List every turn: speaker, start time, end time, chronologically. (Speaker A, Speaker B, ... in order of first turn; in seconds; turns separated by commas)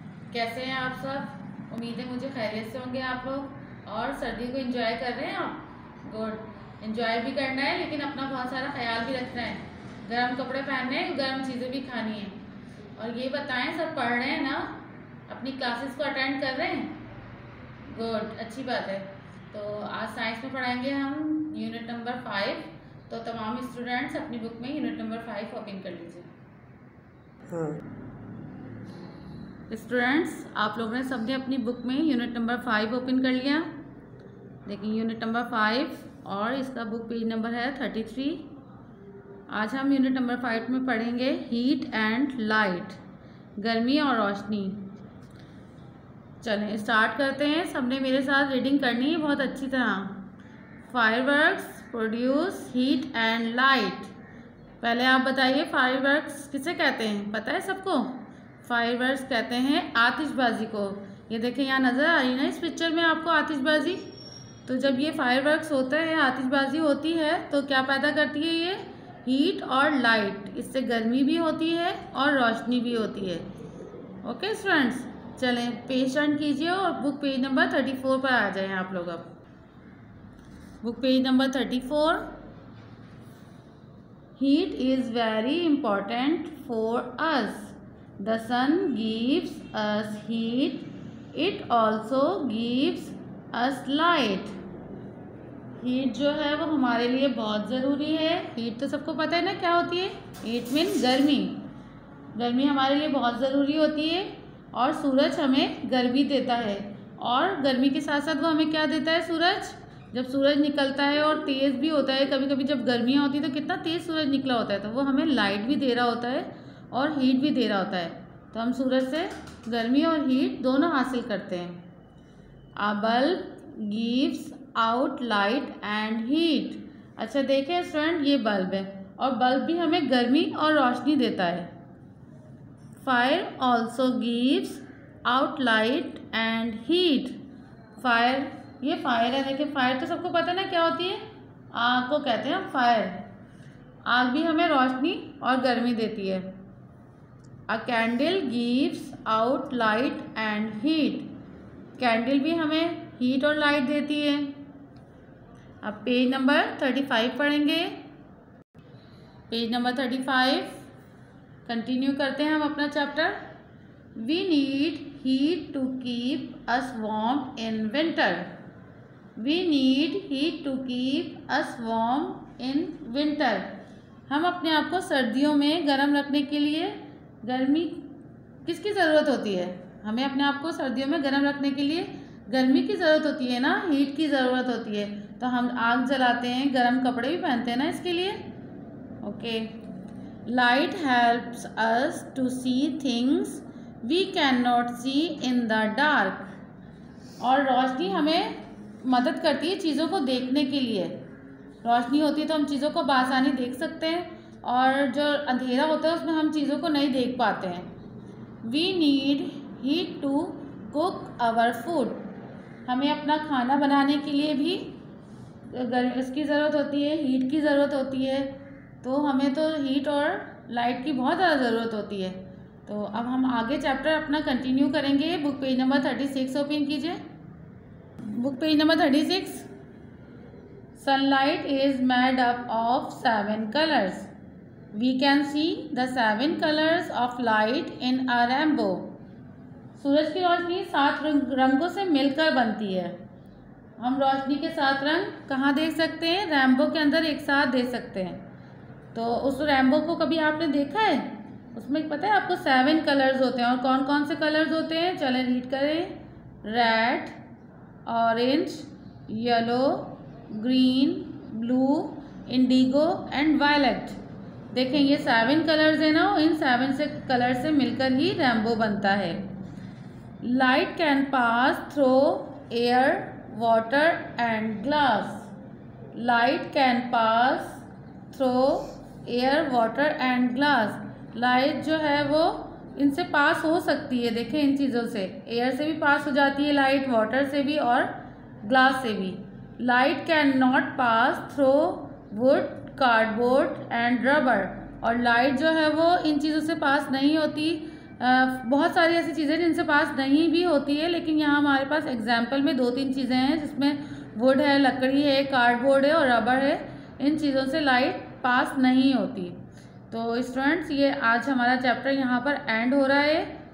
Speaker A: 0.3-12.4, Speaker A: 13.0-14.7, Speaker A: 15.3-17.0, Speaker A: 17.9-26.3, Speaker A: 29.7-33.7, Speaker A: 34.6-38.5, Speaker A: 39.5-43.0, Speaker A: 43.6-44.8, Speaker A: 46.4-50.2, Speaker A: 50.9-54.1, Speaker A: 54.8-64.1, Speaker A: 64.7-73.5, Speaker A: 74.2-79.3, Speaker A: 80.8-82.2, Speaker A: 84.4-94.5, Speaker A: 95.8-101.6, Speaker A: 102.3-121.8, Speaker A: 122.8-131.7, Speaker A: 133.0-137.4, Speaker A: 138.0-141.2, Speaker A: 141.7-143.2, Speaker A: 144.0-146.5, Speaker A: 147.7-151.3, Speaker A: 152.0-154.5, Speaker A: 155.8-157.9, Speaker A: 159.5-160.8, Speaker A: 161.6-163.4, Speaker A: 164.2-168.5, Speaker A: 169.4-173.7, Speaker A: 174.3-178.0, Speaker A: 178.6-188.4, Speaker A: 189.2-189.7, Speaker A: 190.4-196.5, Speaker A: 197.4-201.2, Speaker A: 201.8-207.9, Speaker A: 208.6-212.2, Speaker A: 212.8-214.9, Speaker A: 215.7-218.5, Speaker A: 219.0-227.2, Speaker A: 228.2-229.7, Speaker A: 230.9-234.3, Speaker A: 234.9-239.1, Speaker A: 239.9-243.2, Speaker A: 244.0-248.4, Speaker A: 249.1-256.1, Speaker A: 256.6-257.4, Speaker A: 258.1-264.2, Speaker A: 264.7-269.4, Speaker A: 270.4-275.5, Speaker A: 276.1-288.1, Speaker A: 288.6-313.5